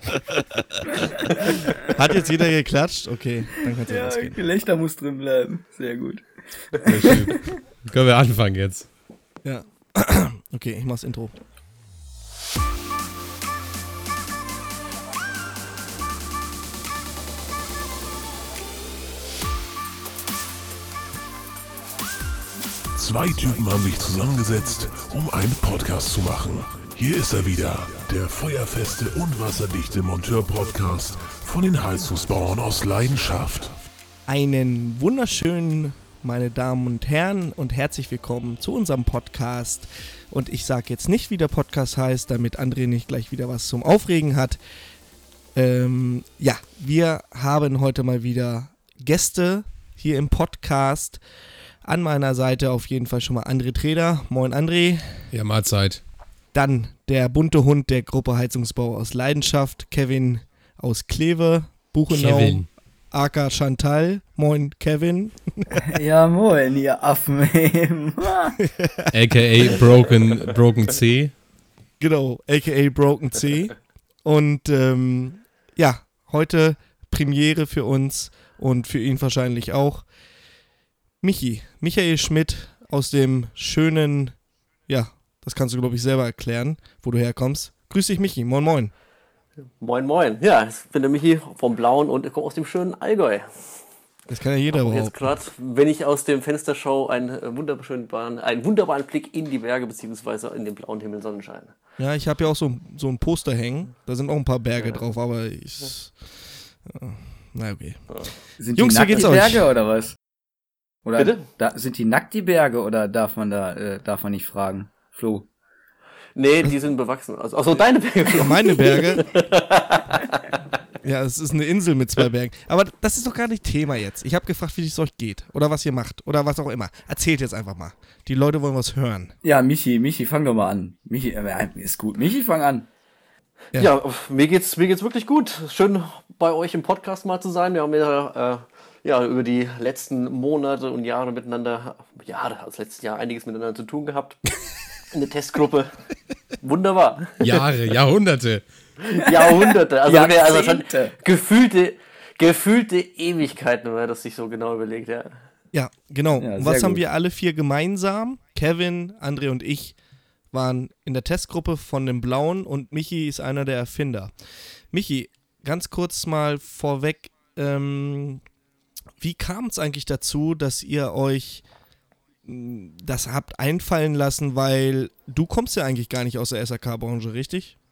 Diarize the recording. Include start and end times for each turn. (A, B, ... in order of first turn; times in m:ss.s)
0:01.5-0:04.4 A
0:03.7-0:07.5 B
0:06.8-0:08.9 C
0:09.4-0:11.4 A
0:23.0-0:33.8 D
0:34.3-0:44.6 A
0:45.6-0:51.2 A
0:51.8-0:55.3 A
0:55.3-0:56.0 C
0:56.5-1:05.8 A
1:02.1-1:02.7 C
1:05.9-1:08.6 B
1:08.6-1:09.1 A
1:09.1-1:11.3 C
1:12.0-1:20.1 A
1:21.2-1:28.9 A
1:29.8-1:33.8 E
1:34.3-1:35.3 A
1:34.7-1:41.8 E
1:42.0-1:48.1 A
1:48.6-1:50.2 B
1:48.7-1:49.7 A
1:51.0-1:55.5 B
1:51.2-1:51.5 E
1:56.4-2:00.6 E
1:58.3-1:59.4 A
2:01.0-2:09.4 A
2:09.4-2:12.9 B
2:13.7-2:24.4 E
2:25.1-2:26.0 E
2:26.6-2:27.7 E
2:27.4-2:28.6 C
2:29.1-2:35.4 E
2:30.1-2:31.1 B
2:35.7-2:40.0 A
2:36.4-2:37.0 B
2:40.5-2:44.3 A
2:44.9-2:48.4 A
2:49.2-2:51.6 A
2:52.4-2:57.8 A